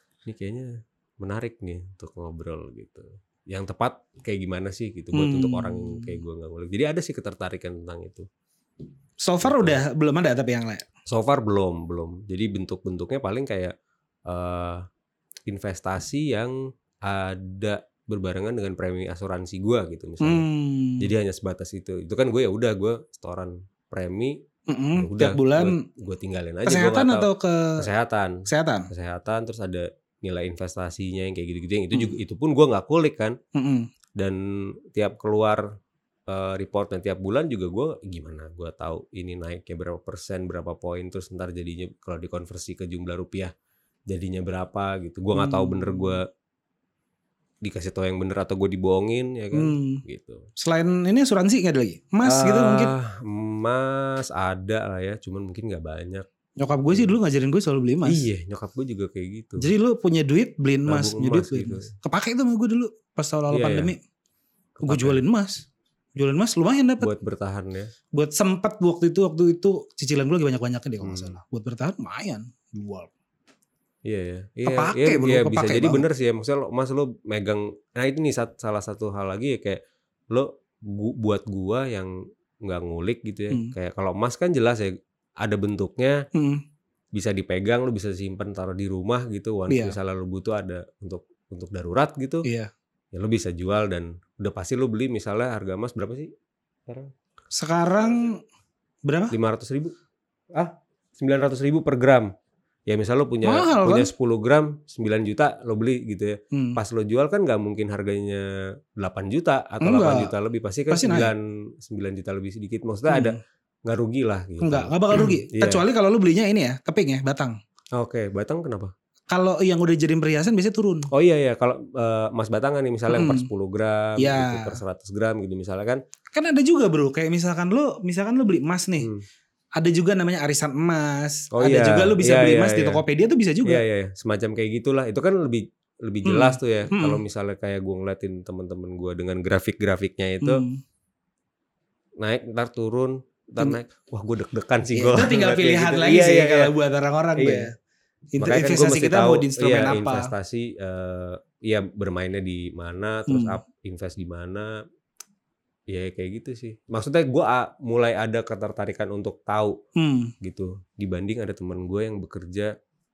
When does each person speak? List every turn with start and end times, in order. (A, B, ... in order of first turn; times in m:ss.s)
0:00.2-0:08.3 A
0:05.1-0:06.2 B
0:09.2-0:10.9 B
0:09.4-0:09.8 A
0:11.1-0:13.7 A
0:14.3-0:14.9 A
0:15.5-0:20.5 A
0:20.2-0:21.1 B
0:21.0-0:24.4 A
0:24.7-0:25.8 B
0:25.0-0:33.4 A
0:26.7-0:27.9 B
0:28.5-0:28.9 B
0:33.6-0:33.9 B
0:34.2-0:35.7 A
0:36.3-0:43.5 A
0:44.1-0:46.3 A
0:45.3-0:46.2 B
0:47.6-0:50.5 A
0:49.5-0:50.0 B
0:50.6-0:52.9 B
0:52.2-0:56.3 A
0:56.6-0:58.2 B
0:58.1-0:59.7 A
0:59.6-1:04.0 B
1:00.9-1:01.9 A
1:03.5-1:03.9 A
1:04.8-1:05.2 A
1:04.8-1:07.1 B
1:07.0-1:07.9 A
1:08.1-1:13.1 B
1:11.0-1:11.4 A
1:14.0-1:26.2 A
1:14.6-1:16.0 B
1:26.3-1:26.6 B
1:27.1-1:32.5 A
1:29.7-1:30.0 B
1:32.4-1:32.7 B
1:33.1-1:36.3 A
1:36.9-1:37.1 A
1:37.5-1:38.4 B
1:39.0-1:39.4 B
1:39.3-1:40.0 A
1:40.5-1:42.3 A
1:42.9-1:55.8 A
1:43.4-1:44.1 B
1:46.5-1:46.8 B
1:49.8-1:50.3 B
1:50.9-1:51.3 B
1:53.1-1:53.4 B
1:54.6-1:57.6 B
1:58.0-1:58.9 A
1:59.3-2:01.1 B
2:01.1-2:06.0 A
2:03.1-2:03.5 B
2:04.2-2:04.8 B
2:06.3-2:09.1 B
2:09.8-2:13.8 B
2:11.5-2:13.0 A
2:13.6-2:20.6 A
2:16.2-2:17.2 B
2:20.4-2:20.8 B
2:22.2-2:26.7 A
2:24.9-2:27.7 B
2:27.4-2:27.7 A
2:28.4-2:30.3 B
2:28.4-2:34.7 A
2:33.3-2:33.6 B
2:35.9-2:39.8 A
2:40.0-2:40.3 B
2:40.4-2:42.7 A